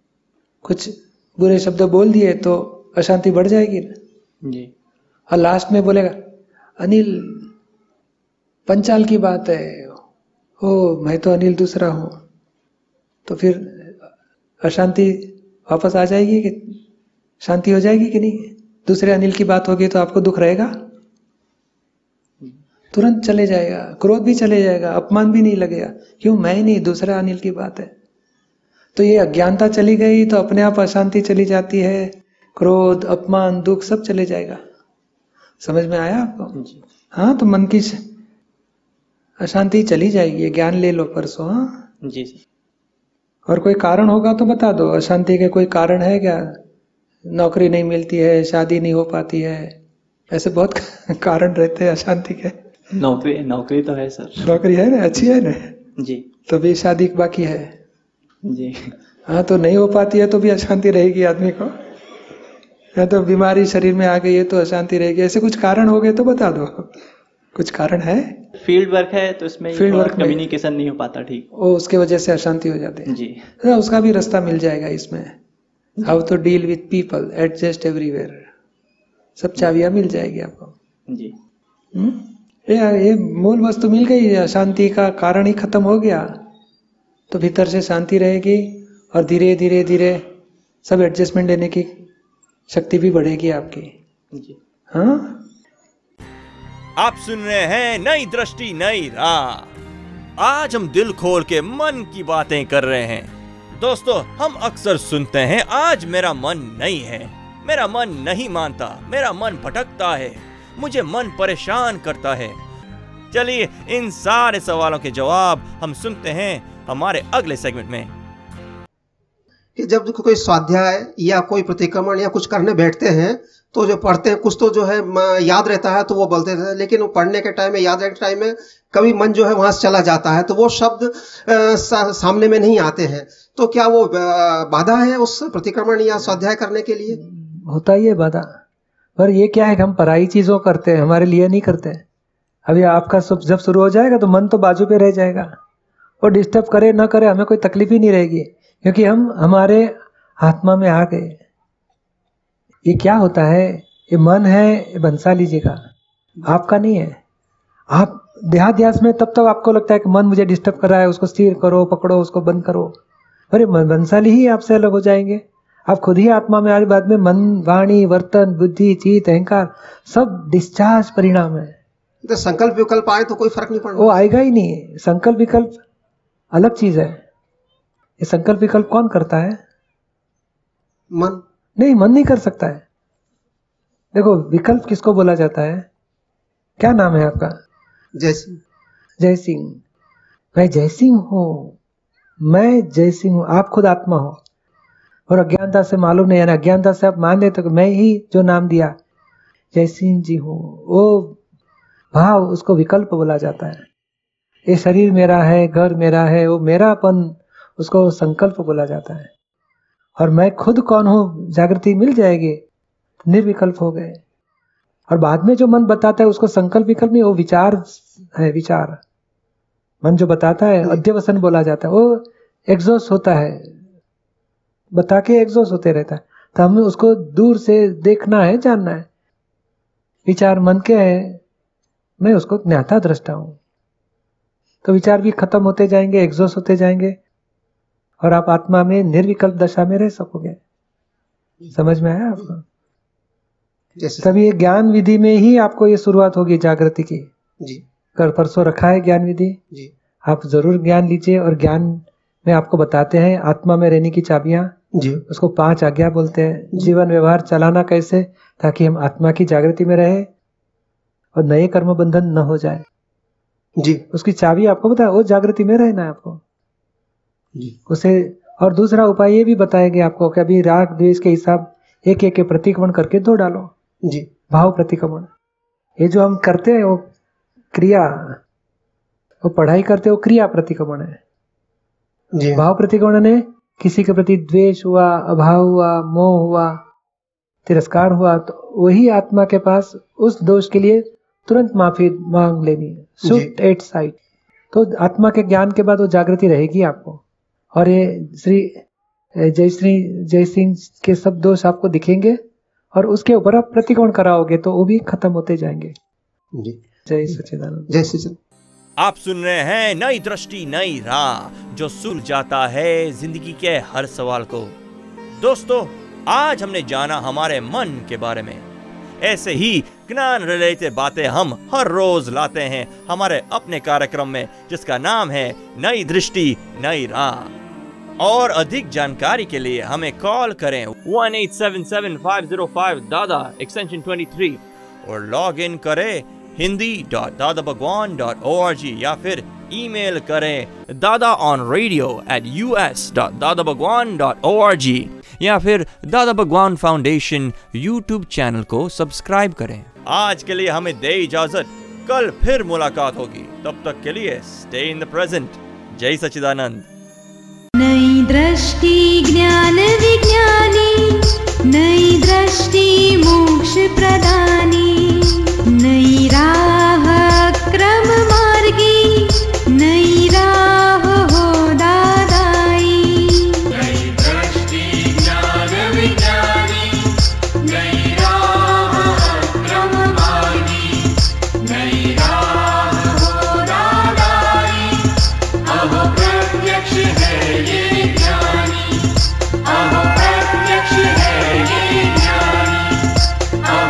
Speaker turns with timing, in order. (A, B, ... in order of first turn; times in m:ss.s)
0:00.6-0:03.9 A
0:04.4-0:04.7 B
0:05.3-0:06.2 A
0:06.8-0:07.5 A
0:08.7-0:10.0 A
0:10.6-0:12.2 A
0:13.3-0:14.0 A
0:14.6-0:16.8 A
0:17.4-0:20.7 A
0:22.9-0:27.9 A
0:29.0-0:34.6 A
0:35.6-0:36.6 A
0:36.6-0:36.8 B
0:37.1-0:38.0 A
0:39.4-0:41.7 A
0:42.0-0:42.4 B
0:43.5-0:46.6 A
0:47.3-0:49.8 A
0:50.3-0:52.6 A
0:52.9-0:54.6 B
0:54.4-0:55.8 A
0:56.0-0:56.2 B
0:56.5-0:57.7 A
0:58.4-0:58.9 B
0:59.3-1:01.7 A
1:03.0-1:06.9 A
1:07.6-1:08.4 A
1:08.6-1:11.5 B
1:09.7-1:10.4 A
1:11.6-1:15.3 A
1:13.1-1:13.4 B
1:16.0-1:18.4 A
1:19.4-1:20.7 A
1:21.1-1:21.3 B
1:22.0-1:26.3 A
1:27.3-1:30.2 A
1:30.8-1:32.0 A
1:32.7-1:33.9 A
1:34.9-1:35.4 A
1:37.0-1:39.7 C
1:40.4-1:52.6 C
1:53.3-1:58.1 C
1:59.8-2:17.2 D
2:17.2-2:18.5 A
2:19.2-2:22.0 A
2:22.7-2:25.5 A
2:26.2-2:31.4 A
2:32.9-2:35.8 A
2:36.5-2:37.2 A
2:37.9-2:42.9 A
2:43.5-2:51.8 A
2:52.2-2:54.2 D
2:54.0-2:55.8 A
2:56.5-2:57.2 A
2:58.2-2:59.6 A
3:01.1-3:01.4 D
3:01.8-3:02.8 A
3:04.1-3:05.9 A
3:06.8-3:07.6 A
3:08.2-3:08.6 D
3:09.2-3:09.8 A
3:10.6-3:11.8 A
3:12.4-3:14.4 A
3:15.3-3:19.0 A
3:19.7-3:21.4 A
3:22.1-3:23.8 A
3:24.7-3:29.3 A
3:30.2-3:32.6 A
3:33.2-3:34.2 A
3:35.1-3:39.0 A
3:40.0-3:43.8 A
3:44.9-3:49.1 A
3:50.3-3:51.4 A
3:52.2-3:53.6 A
3:54.8-3:57.2 A
3:58.2-4:00.6 A
4:01.7-4:02.6 A
4:04.0-4:04.3 D
4:04.2-4:07.3 A
4:08.2-4:09.6 A
4:10.2-4:14.7 A
4:14.9-4:15.2 D
4:15.3-4:20.3 A
4:21.4-4:22.8 A
4:23.8-4:24.0 D
4:24.1-4:26.4 A
4:27.9-4:33.7 A
4:34.0-4:34.3 D
4:34.5-4:35.3 A
4:36.0-4:37.0 A
4:37.7-4:38.4 A
4:39.4-4:41.2 A
4:42.4-4:42.6 D
4:42.6-4:46.8 A
4:47.7-4:54.2 A
4:53.2-4:53.5 D
4:54.7-4:57.2 A
4:57.8-4:58.8 A
4:59.4-5:02.4 A
5:02.9-5:05.9 A
5:07.1-5:07.9 A
5:07.9-5:08.4 D
5:09.0-5:14.7 C
5:15.4-5:18.7 C
5:19.2-5:27.5 C
5:28.2-5:56.9 C
5:57.8-6:14.5 E
6:15.3-6:17.0 E
6:17.7-6:21.0 E
6:21.6-6:24.6 E
6:25.8-6:26.8 E
6:27.5-6:28.8 E
6:29.7-6:32.5 E